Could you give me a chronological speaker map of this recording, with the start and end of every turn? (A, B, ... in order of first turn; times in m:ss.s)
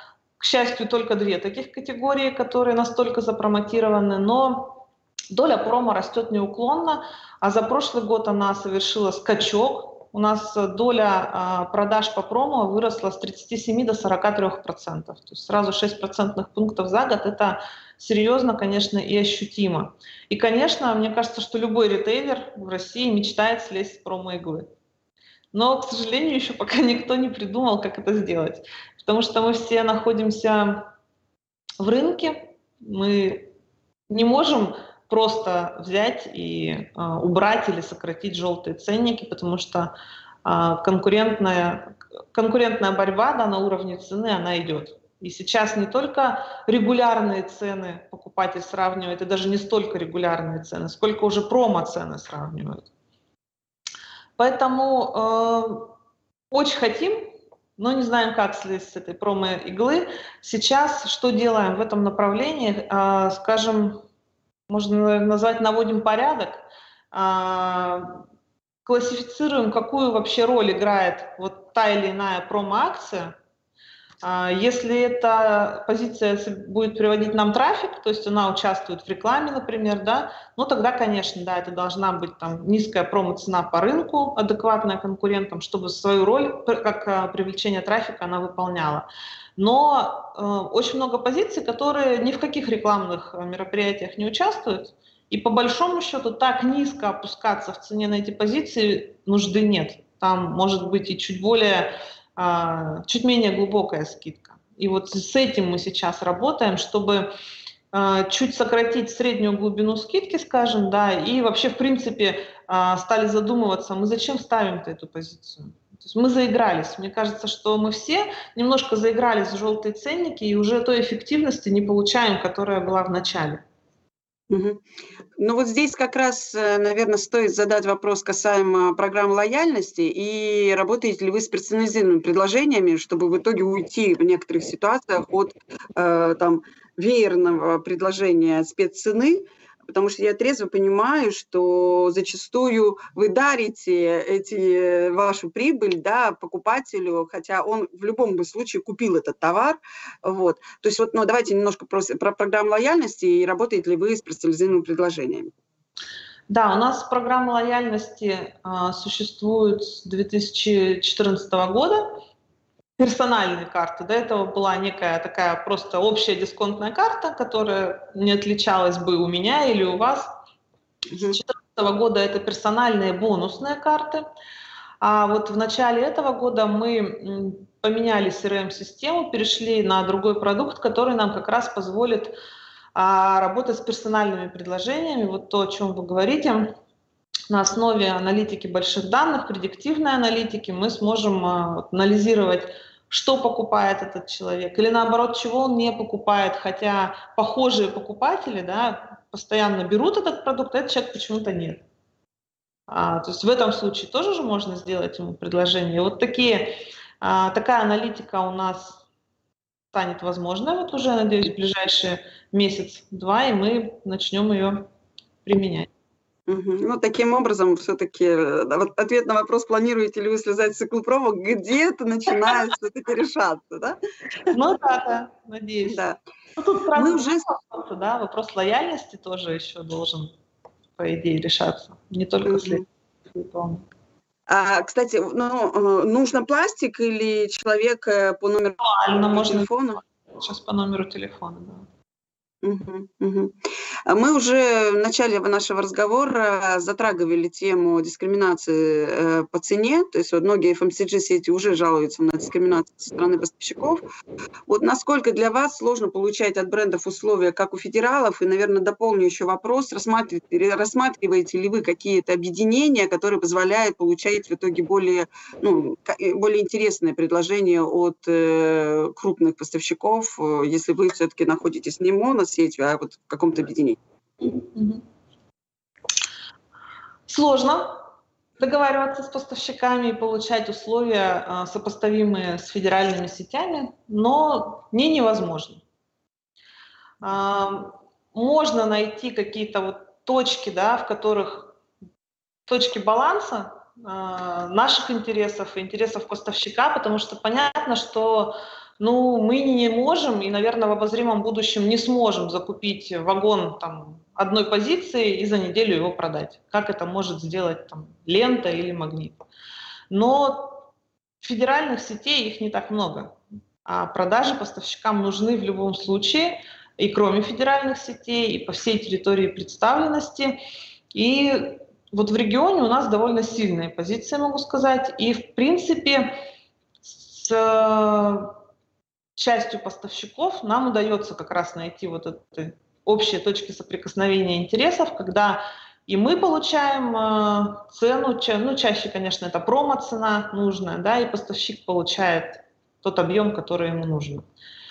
0:00.4-0:24.7 A
0:25.5-0:30.9 A
0:31.8-0:33.5 A
0:34.1-0:39.9 A
0:40.4-0:52.9 A
0:54.4-0:55.9 A
0:56.5-1:04.0 A
1:04.7-1:08.2 A
1:08.8-1:13.3 A
1:14.2-1:47.3 A
1:47.9-2:03.6 A
2:04.5-2:04.8 B
2:05.4-2:35.5 B
2:36.5-2:42.2 A
2:43.0-2:50.3 A
2:51.1-2:51.4 B
2:51.2-2:54.3 A
2:55.0-3:02.3 A
3:03.0-3:06.8 A
3:07.5-3:21.8 A
3:22.9-3:29.0 A
3:29.9-3:34.9 A
3:35.4-3:35.9 A
3:36.5-3:44.0 B
3:44.5-3:46.0 A
3:45.9-3:46.2 B
3:46.6-3:50.3 A
3:47.0-3:47.4 B
3:51.0-3:53.8 A
3:52.4-3:52.8 B
3:54.5-3:58.8 B
3:58.8-3:59.7 A
3:59.3-4:00.0 B
4:00.3-4:01.9 A
4:02.6-4:03.6 B
4:04.1-4:14.0 B
4:14.7-4:34.0 B
4:34.6-4:35.0 A
4:37.3-4:38.0 A
4:38.6-4:45.8 A
4:47.2-4:51.8 A
4:52.7-5:09.4 A
5:10.1-5:10.9 A
5:11.4-5:20.6 A
5:21.1-5:26.4 A
5:27.0-5:28.5 A
5:29.4-5:44.5 A